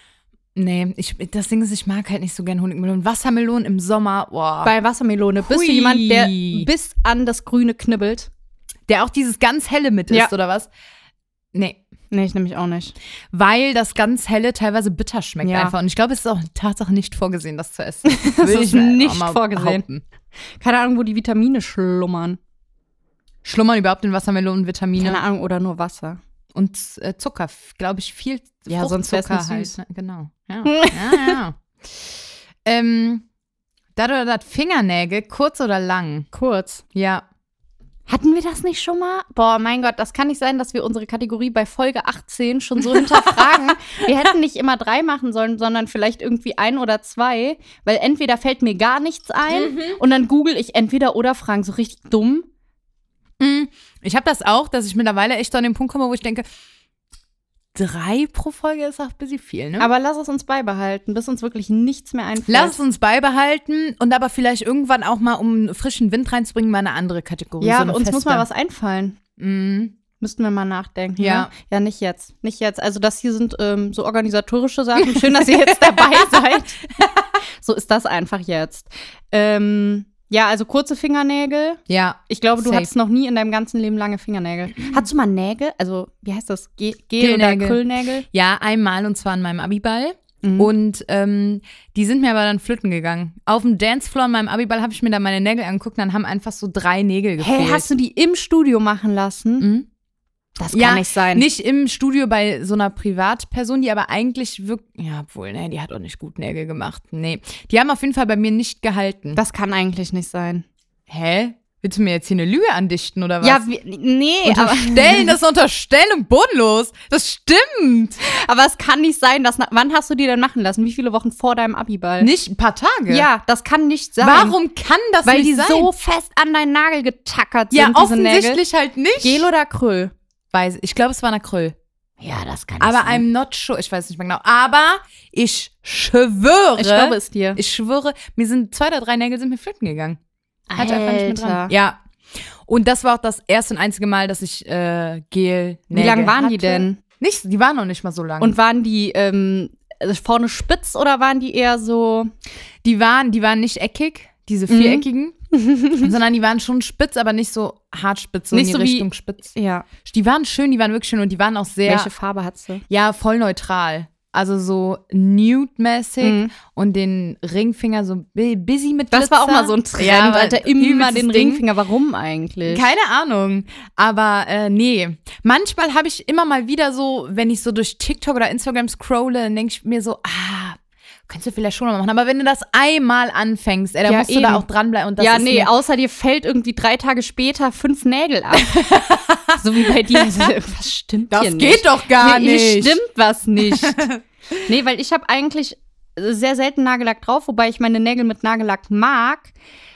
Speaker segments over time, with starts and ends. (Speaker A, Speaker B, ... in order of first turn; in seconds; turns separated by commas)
Speaker A: 0.5-4.7, Speaker B: 4.6-8.3, Speaker A: 5.4-6.7, Speaker A: 8.9-10.7, Speaker A: 11.5-11.8, Speaker B: 12.1-12.9, Speaker A: 13.3-20.0, Speaker B: 15.4-15.7, Speaker B: 18.0-19.8, Speaker B: 20.6-22.4, Speaker A: 23.4-25.2, Speaker B: 25.0-26.2, Speaker A: 26.5-32.1, Speaker B: 28.7-29.8, Speaker B: 30.6-31.4, Speaker A: 32.6-33.2, Speaker A: 34.0-36.3, Speaker B: 36.3-36.8, Speaker A: 36.9-37.2, Speaker B: 38.1-52.5, Speaker A: 42.9-44.0, Speaker A: 49.5-50.0, Speaker A: 53.4-56.5, Speaker A: 57.7-59.9, Speaker B: 59.8-62.8, Speaker A: 62.5-68.5, Speaker B: 67.6-69.2, Speaker A: 69.4-70.0, Speaker B: 70.2-76.8, Speaker A: 71.2-71.5, Speaker A: 75.0-76.3, Speaker B: 77.6-88.2, Speaker A: 81.9-82.9, Speaker A: 87.2-97.9, Speaker B: 90.4-90.7, Speaker B: 97.4-99.7, Speaker A: 99.6-99.9, Speaker B: 100.6-101.5, Speaker A: 100.7-109.4, Speaker B: 109.3-110.6, Speaker A: 111.1-113.6, Speaker B: 113.4-115.3, Speaker A: 114.4-118.2, Speaker B: 118.2-122.3, Speaker A: 122.2-123.3, Speaker B: 123.1-124.5, Speaker A: 124.2-125.9, Speaker B: 125.2-128.6, Speaker A: 127.7-129.4, Speaker B: 129.2-130.1, Speaker A: 130.5-131.8, Speaker B: 132.2-133.2, Speaker A: 132.8-140.2, Speaker B: 136.8-137.6, Speaker B: 140.7-141.7, Speaker A: 140.7-142.0, Speaker A: 142.7-148.6, Speaker B: 145.9-147.0, Speaker B: 148.4-152.3, Speaker A: 152.8-155.4, Speaker B: 154.7-156.1, Speaker A: 156.0-159.5, Speaker B: 158.5-159.9, Speaker A: 160.0-162.1, Speaker B: 161.8-162.8, Speaker A: 162.9-171.6, Speaker B: 166.2-166.5, Speaker B: 169.1-172.8, Speaker A: 172.7-185.7, Speaker B: 184.0-184.6, Speaker B: 185.2-189.0, Speaker A: 188.6-190.5, Speaker B: 189.5-194.0, Speaker A: 191.3-193.0, Speaker A: 193.6-194.2, Speaker B: 194.7-199.5